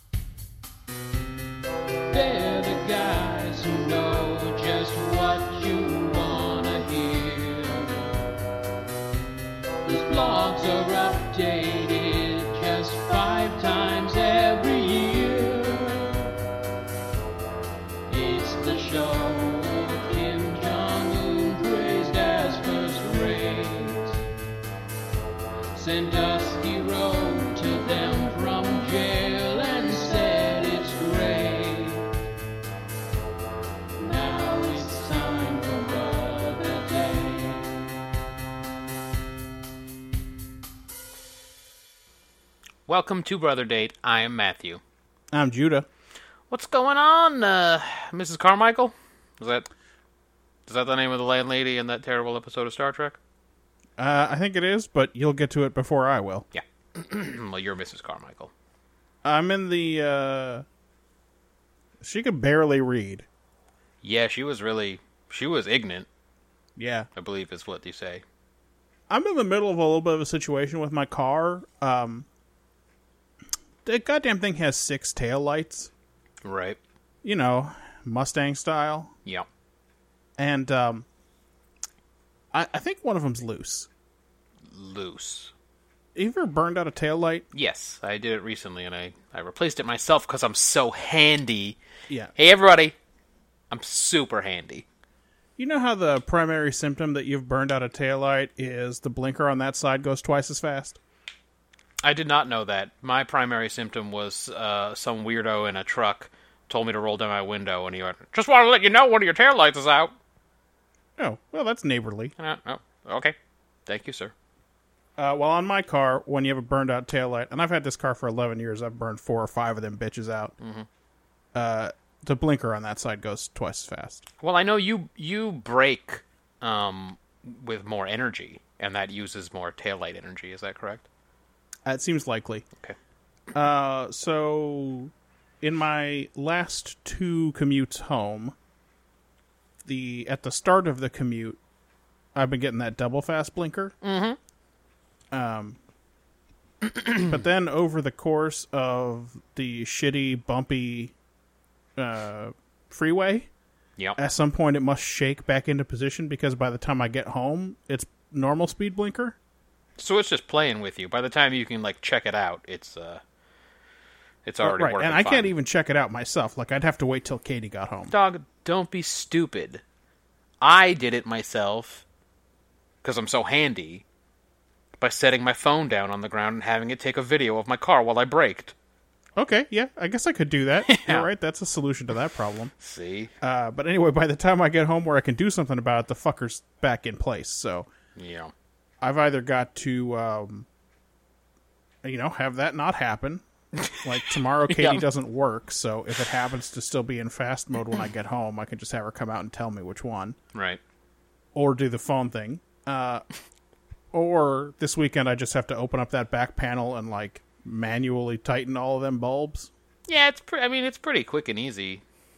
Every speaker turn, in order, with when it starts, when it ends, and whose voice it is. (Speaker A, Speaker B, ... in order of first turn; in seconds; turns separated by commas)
Speaker A: 2.1-8.2, Speaker A: 9.8-16.3, Speaker A: 18.1-24.2, Speaker A: 25.7-32.2, Speaker A: 34.0-37.9, Speaker B: 42.9-44.8, Speaker C: 45.3-45.9, Speaker B: 46.5-49.7, Speaker B: 50.7-53.2, Speaker C: 54.0-56.5, Speaker B: 56.5-58.5, Speaker C: 59.2-60.6, Speaker C: 62.0-63.3, Speaker B: 64.0-66.1, Speaker C: 66.8-67.1, Speaker B: 67.2-68.2, Speaker C: 69.1-72.3, Speaker C: 73.8-75.9, Speaker B: 76.4-76.8, Speaker C: 77.2-79.1, Speaker C: 80.4-81.1, Speaker C: 82.5-83.9, Speaker B: 84.7-85.5, Speaker C: 86.2-87.5, Speaker B: 87.5-91.8, Speaker B: 92.4-93.0, Speaker B: 93.7-94.8, Speaker C: 95.6-101.0, Speaker B: 102.0-110.1, Speaker C: 111.2-112.3, Speaker B: 112.4-114.3, Speaker C: 115.2-120.5, Speaker B: 120.6-120.9, Speaker C: 121.5-124.3, Speaker B: 124.4-131.1, Speaker C: 131.9-132.7, Speaker C: 133.5-138.6, Speaker C: 139.8-141.6, Speaker C: 142.3-143.9, Speaker B: 144.0-144.4, Speaker C: 145.3-145.8, Speaker B: 146.8-147.4, Speaker C: 147.3-151.1, Speaker C: 152.0-153.5, Speaker C: 154.2-159.4, Speaker B: 160.0-163.2, Speaker B: 164.4-165.5, Speaker C: 164.6-168.2, Speaker B: 168.1-169.8, Speaker B: 170.6-172.1, Speaker B: 173.0-174.1, Speaker B: 175.0-178.7, Speaker C: 179.4-182.7, Speaker B: 180.8-181.3, Speaker B: 182.8-183.3, Speaker C: 183.4-187.9, Speaker B: 188.2-188.5, Speaker C: 189.0-190.7, Speaker C: 192.0-193.4, Speaker B: 193.8-194.1, Speaker C: 194.0-200.4, Speaker B: 194.7-195.1, Speaker B: 200.5-200.8, Speaker C: 201.6-203.2, Speaker C: 204.1-209.7, Speaker B: 210.1-212.0